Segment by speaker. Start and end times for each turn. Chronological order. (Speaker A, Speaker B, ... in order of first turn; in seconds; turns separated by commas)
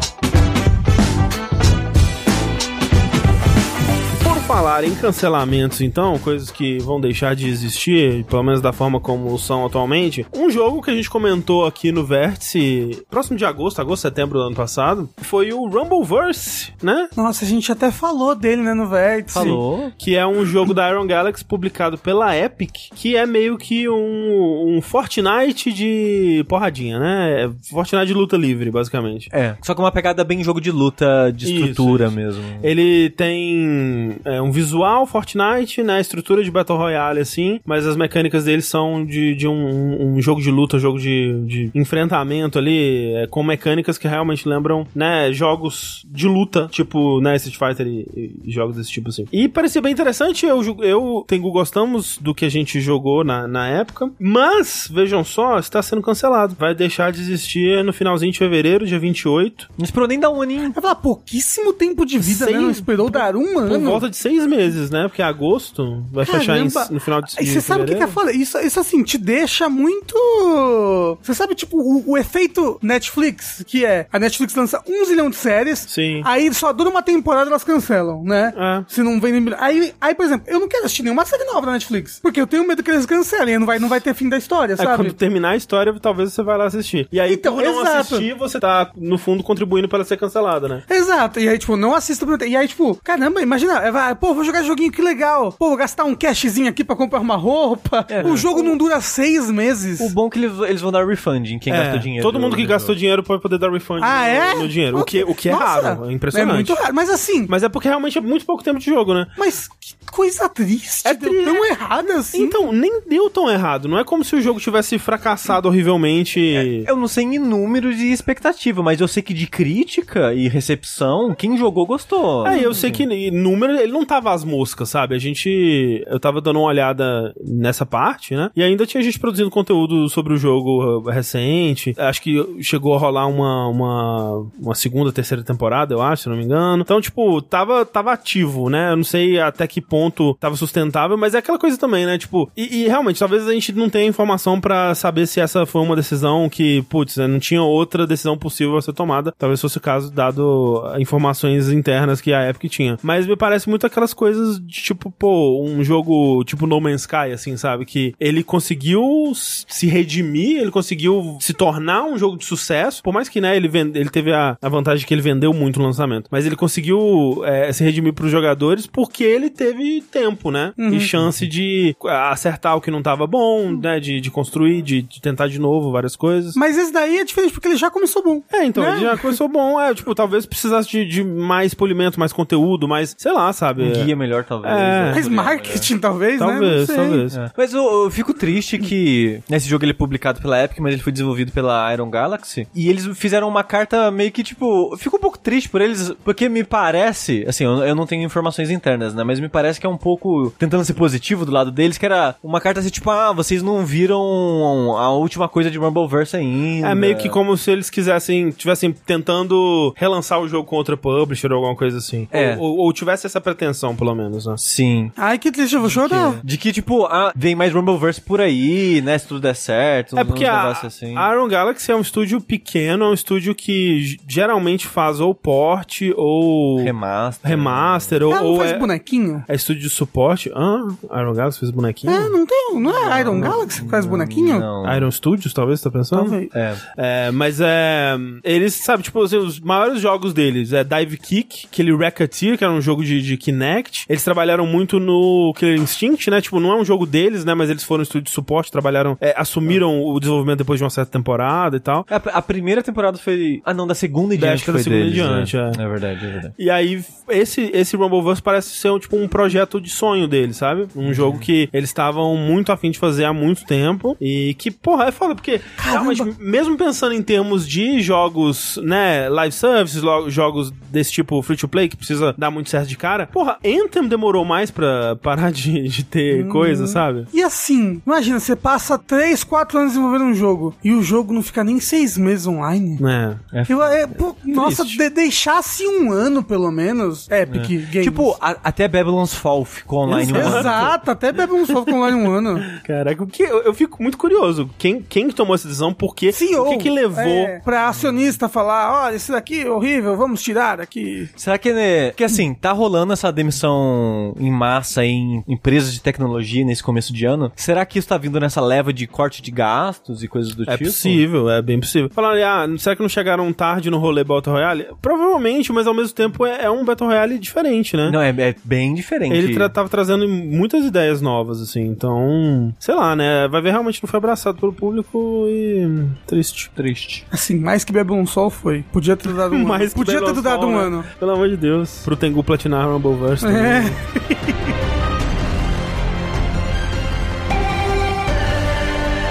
Speaker A: 4.2-17.1, Speaker B: 17.2-19.6, Speaker C: 19.3-19.9, Speaker A: 19.4-29.3, Speaker C: 29.3-32.7, Speaker A: 31.4-59.7, Speaker C: 59.8-60.8, Speaker B: 60.7-64.0, Speaker A: 62.2-68.2, Speaker B: 66.2-85.2, Speaker A: 75.9-76.3, Speaker A: 78.5-78.9, Speaker A: 84.8-90.8, Speaker B: 87.3-88.3, Speaker B: 90.9-100.1, Speaker C: 98.1-98.8, Speaker A: 98.2-98.5, Speaker C: 100.0-103.0, Speaker A: 101.7-106.8, Speaker B: 104.0-107.5, Speaker A: 107.5-109.3, Speaker B: 109.4-112.6, Speaker A: 111.0-111.7, Speaker A: 112.3-116.9, Speaker C: 116.5-123.1, Speaker A: 122.5-176.6, Speaker B: 122.5-122.8, Speaker B: 170.8-171.1, Speaker B: 176.6-179.4, Speaker A: 178.5-184.1, Speaker C: 183.8-185.9, Speaker A: 184.6-185.2, Speaker B: 185.1-187.2, Speaker A: 186.4-187.4, Speaker C: 187.3-207.4, Speaker A: 206.8-214.6, Speaker C: 212.3-212.6, Speaker C: 214.6-215.2, Speaker B: 215.2-216.4, Speaker C: 215.8-221.3, Speaker A: 220.2-228.9, Speaker C: 226.8-228.2, Speaker B: 228.3-229.4, Speaker A: 229.5-232.4, Speaker B: 232.1-234.7, Speaker A: 232.9-233.7, Speaker C: 233.2-235.1, Speaker A: 234.8-236.4, Speaker B: 236.1-236.5, Speaker C: 236.5-236.8, Speaker A: 237.0-252.1, Speaker C: 252.1-256.5, Speaker A: 254.4-255.8, Speaker A: 256.6-277.3, Speaker C: 261.1-261.5, Speaker B: 265.8-266.3, Speaker B: 276.3-283.0, Speaker A: 283.0-283.5, Speaker C: 283.5-284.0, Speaker B: 283.7-288.3, Speaker A: 284.4-285.0, Speaker C: 287.5-290.9, Speaker B: 290.1-292.7, Speaker A: 290.1-290.9, Speaker A: 291.7-292.1, Speaker A: 292.7-297.6, Speaker B: 296.3-301.3, Speaker C: 301.4-311.2, Speaker A: 310.7-318.2, Speaker C: 318.1-319.7, Speaker A: 319.3-326.7, Speaker C: 326.8-327.2, Speaker B: 327.3-331.1, Speaker A: 329.3-334.0, Speaker B: 333.4-334.5